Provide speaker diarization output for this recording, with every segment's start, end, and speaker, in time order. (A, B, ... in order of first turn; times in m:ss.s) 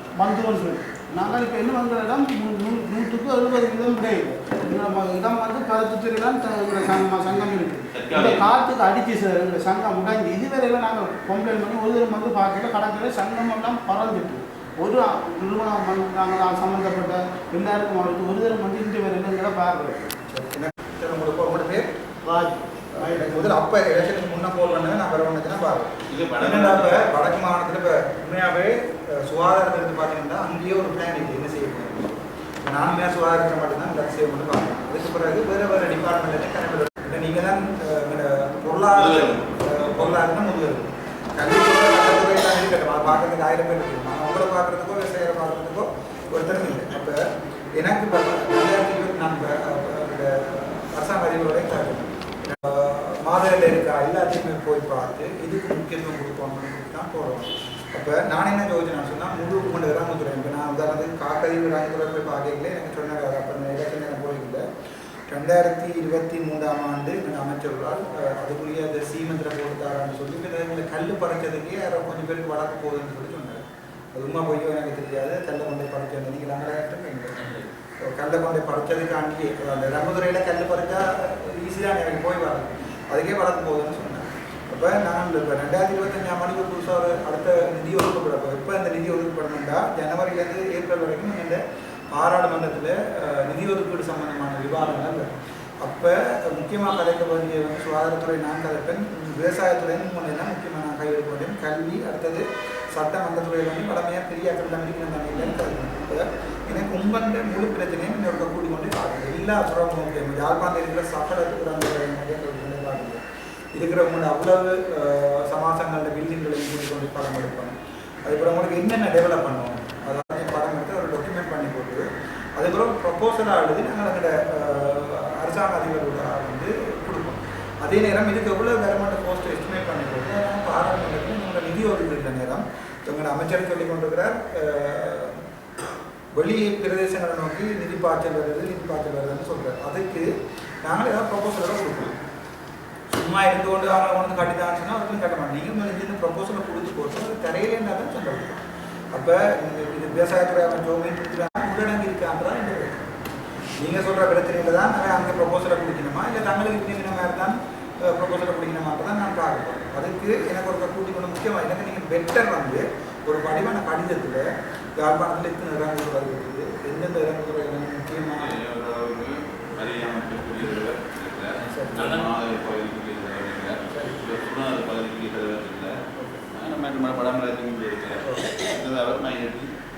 0:00.2-0:20.1 A
0:07.9-0:08.6 B
0:20.3-0:21.9 C
0:22.2-0:23.6 A
0:22.9-0:47.2 C
0:26.1-0:27.1 B
0:38.9-0:40.2 B
0:47.8-1:04.6 C
1:05.3-1:35.3 C
1:35.8-1:53.2 C
1:53.8-2:02.0 C
2:02.6-2:15.4 C
2:16.4-2:20.3 C
2:20.8-2:22.2 C
2:23.1-2:28.6 C
2:29.1-2:33.1 C
2:33.8-2:44.5 C
2:45.0-2:48.6 C
2:48.4-2:56.0 B
2:51.6-2:52.3 C
2:53.9-2:54.2 C
2:56.5-2:59.7 B
2:58.2-2:58.5 C